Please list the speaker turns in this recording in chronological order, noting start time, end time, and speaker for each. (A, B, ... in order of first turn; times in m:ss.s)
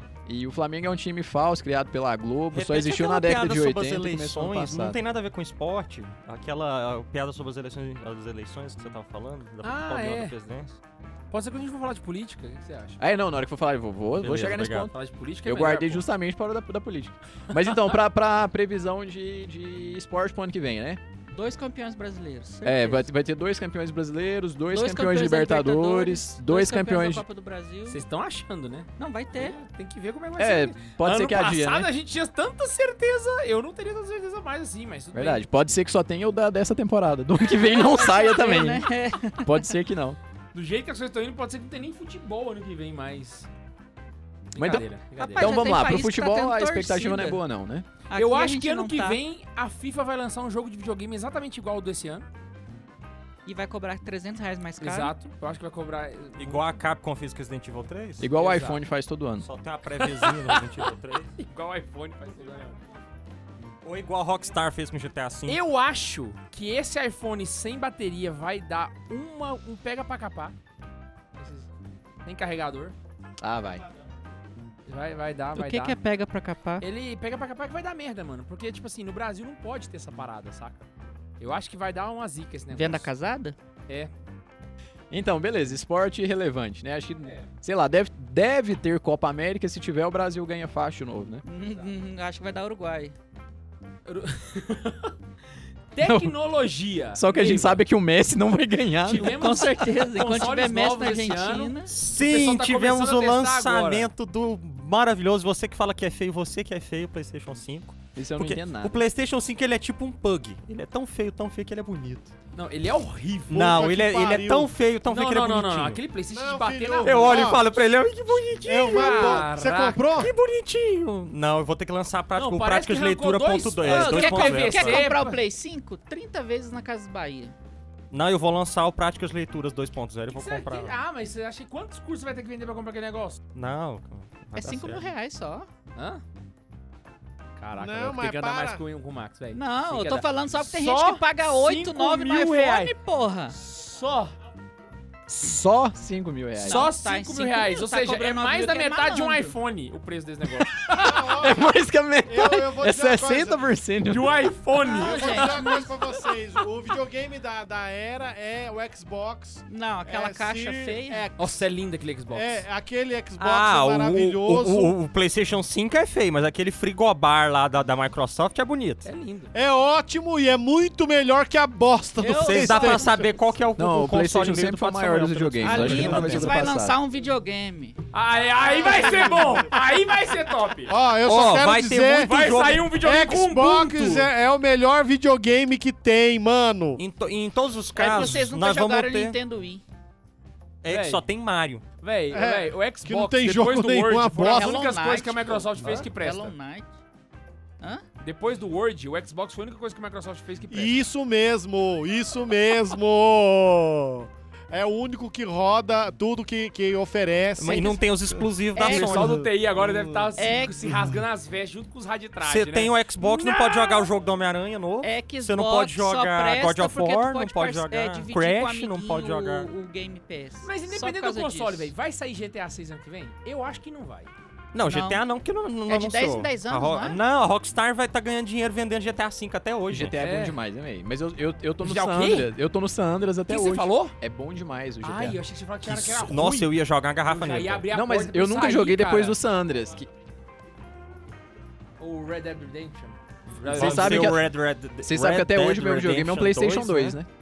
0:00.2-0:05.0 A
0:02.5-0:10.8 B
0:09.6-0:10.3 C
0:11.3-0:13.0 C
0:13.0-0:21.0 A
0:14.2-0:14.9 B
0:14.9-0:16.0 C
0:17.5-0:17.9 C
0:21.3-0:23.1 D
0:22.6-0:27.2 A
0:24.7-0:28.0 D
0:27.9-0:35.4 C
0:29.0-0:29.6 D
0:30.4-0:31.9 A
0:35.1-0:38.9 A
0:37.5-0:39.7 D
0:39.4-0:40.2 A
0:40.5-0:43.5 C
0:44.5-0:45.7 C
0:44.6-0:47.8 A
0:45.2-0:47.4 D
0:48.1-0:49.2 D
0:48.1-0:52.3 C
0:53.4-0:55.1 D
0:54.8-0:56.6 C
0:56.4-0:58.3 B
0:58.2-0:59.5 A
0:58.3-0:58.8 C
0:59.4-1:01.3 B
1:00.0-1:02.8 C
1:03.8-1:05.6 B
1:05.4-1:10.5 C
1:11.4-1:11.7 C
1:12.2-1:13.0 C
1:13.4-1:13.8 A
1:14.9-1:16.0 C
1:15.5-1:16.8 D
1:16.8-1:20.9 C
1:21.4-1:23.1 C
1:22.7-1:23.6 D
1:25.1-1:31.4 A
1:31.4-1:33.1 D
1:34.0-1:35.1 C
1:35.9-1:37.8 C
1:36.0-1:36.3 A
1:37.1-1:39.7 A
1:39.0-1:44.1 C
1:39.2-1:41.9 D
1:41.9-1:52.3 B
1:48.1-1:49.0 A
1:52.5-1:53.8 C
1:53.5-1:56.0 B
1:53.5-1:54.7 E
1:55.0-1:57.6 C
1:56.3-1:57.6 E
1:57.0-1:59.5 B
1:58.6-2:00.3 E
1:58.8-2:00.2 C
2:00.2-2:05.0 B
2:02.4-2:05.4 C
2:03.8-2:07.5 D
2:08.1-2:11.0 B
2:10.3-2:13.4 C
2:13.5-2:15.1 B
2:14.5-2:15.7 D
2:15.9-2:16.2 C
2:17.6-2:22.9 C
2:17.8-2:18.8 E
2:19.5-2:23.6 D
2:23.5-2:24.3 C
2:25.3-2:26.9 A
2:26.6-2:29.5 D
2:26.6-2:31.4 C
2:30.6-2:34.4 A
2:31.0-2:31.7 E
2:32.2-2:33.7 E
2:34.0-2:35.8 C
2:34.8-2:35.9 D
2:34.8-2:41.3 E
2:39.7-2:41.3 D
2:41.4-2:42.6 C
2:42.3-2:44.9 E
2:43.4-2:49.1 B
2:49.0-2:49.5 C
2:49.5-2:53.3 E
2:52.2-2:53.2 D
2:52.4-2:56.7 B
2:53.8-2:57.0 A
2:55.6-2:58.0 D
2:58.1-3:00.9 C
2:58.6-2:59.8 E
3:00.8-3:07.0 E
3:01.2-3:02.8 B
3:02.2-3:04.3 C
3:07.0-3:09.4 B
3:07.9-3:09.8 D
3:10.8-3:11.8 B
3:10.9-3:11.2 C
3:12.0-3:16.5 C
3:12.3-3:14.9 E
3:14.5-3:16.9 D
3:18.2-3:21.0 C
3:20.7-3:28.5 E
3:27.6-3:29.4 B
3:27.7-3:28.0 D
3:28.8-3:29.1 D
3:28.8-3:34.1 C
3:29.2-3:31.2 E
3:30.4-3:30.8 D
3:32.4-3:39.7 B
3:35.0-3:41.9 D
3:40.6-3:44.3 C
3:44.7-3:50.2 B
3:44.8-3:45.2 D
3:45.9-3:47.2 D
3:49.9-3:55.4 A
3:50.2-3:50.6 C
3:51.8-3:52.5 C
3:53.5-3:54.1 C
3:55.0-3:59.4 C
3:55.8-3:57.9 B
3:57.9-4:00.1 A
4:02.0-4:04.4 C
4:03.7-4:04.5 A
4:03.7-4:07.2 B
4:05.0-4:07.3 A